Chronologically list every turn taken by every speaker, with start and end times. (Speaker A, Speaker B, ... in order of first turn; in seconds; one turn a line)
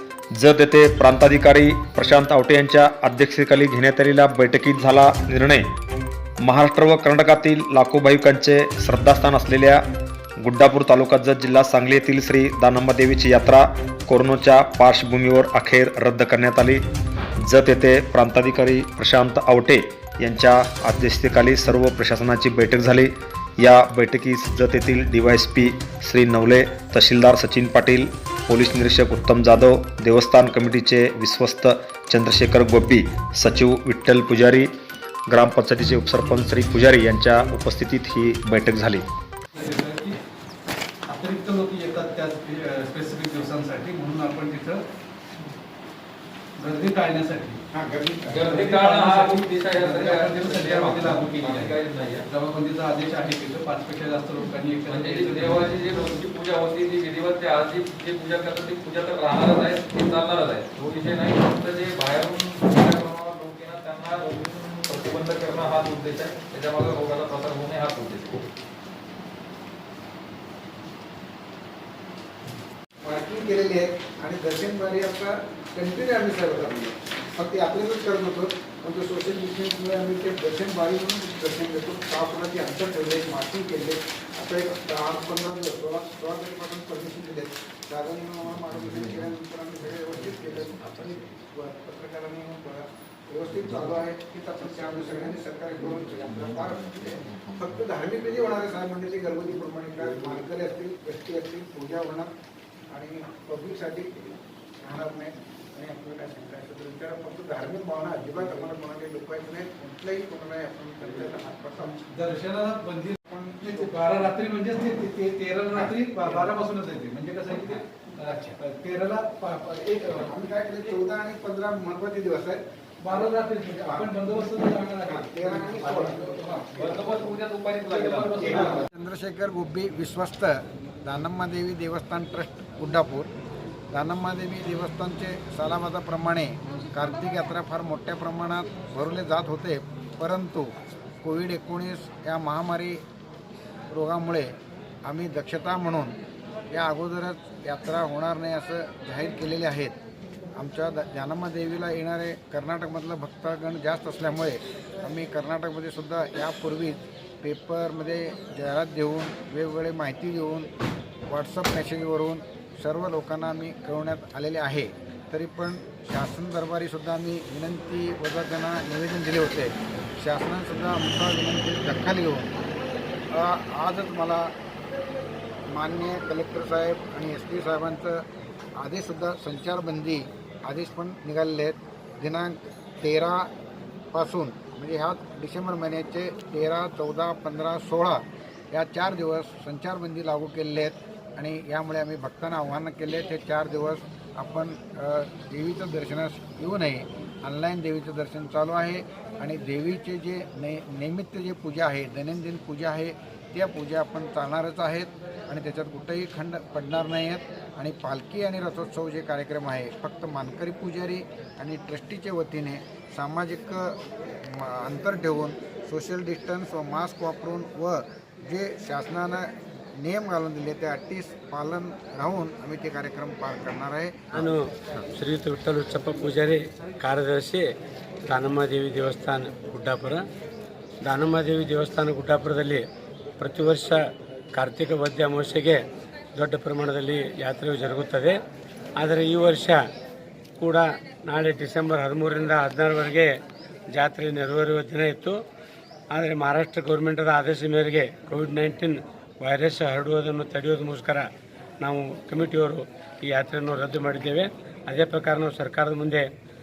Speaker A: 0.3-5.7
Speaker A: 6.4-9.8
Speaker A: 10.4-16.8
Speaker A: 17.4-34.7
Speaker A: 35.3-39.0
Speaker B: 39.5-40.2
Speaker B: 41.1-44.8
Speaker B: 46.6-47.6
Speaker C: 47.7-48.5
Speaker D: 48.2-52.2
Speaker B: 48.5-51.8
Speaker B: 52.3-55.9
Speaker D: 54.9-68.4
Speaker C: 73.0-102.3
Speaker C: 102.9-112.1
Speaker B: 112.1-120.3
Speaker C: 113.2-114.3
Speaker C: 115.7-116.5
Speaker C: 120.2-123.2
Speaker B: 123.0-126.9
Speaker C: 123.8-127.2
Speaker D: 126.7-128.8
Speaker B: 127.7-128.8
Speaker C: 128.4-133.3
Speaker C: 133.9-143.0
Speaker C: 143.9-146.2
Speaker C: 146.7-150.0
Speaker C: 150.6-160.7
Speaker C: 161.3-172.6
Speaker C: 173.3-174.5
Speaker C: 175.7-178.2
Speaker C: 178.8-183.5
Speaker C: 184.1-224.4
Speaker E: 224.3-227.7
Speaker E: 228.3-230.2
Speaker E: 231.0-232.8
Speaker E: 233.4-234.0
Speaker E: 234.5-235.8
Speaker E: 236.3-238.4
Speaker E: 239.0-239.8
Speaker E: 240.6-243.3
Speaker E: 243.9-245.4
Speaker E: 246.1-251.2
Speaker E: 251.8-256.2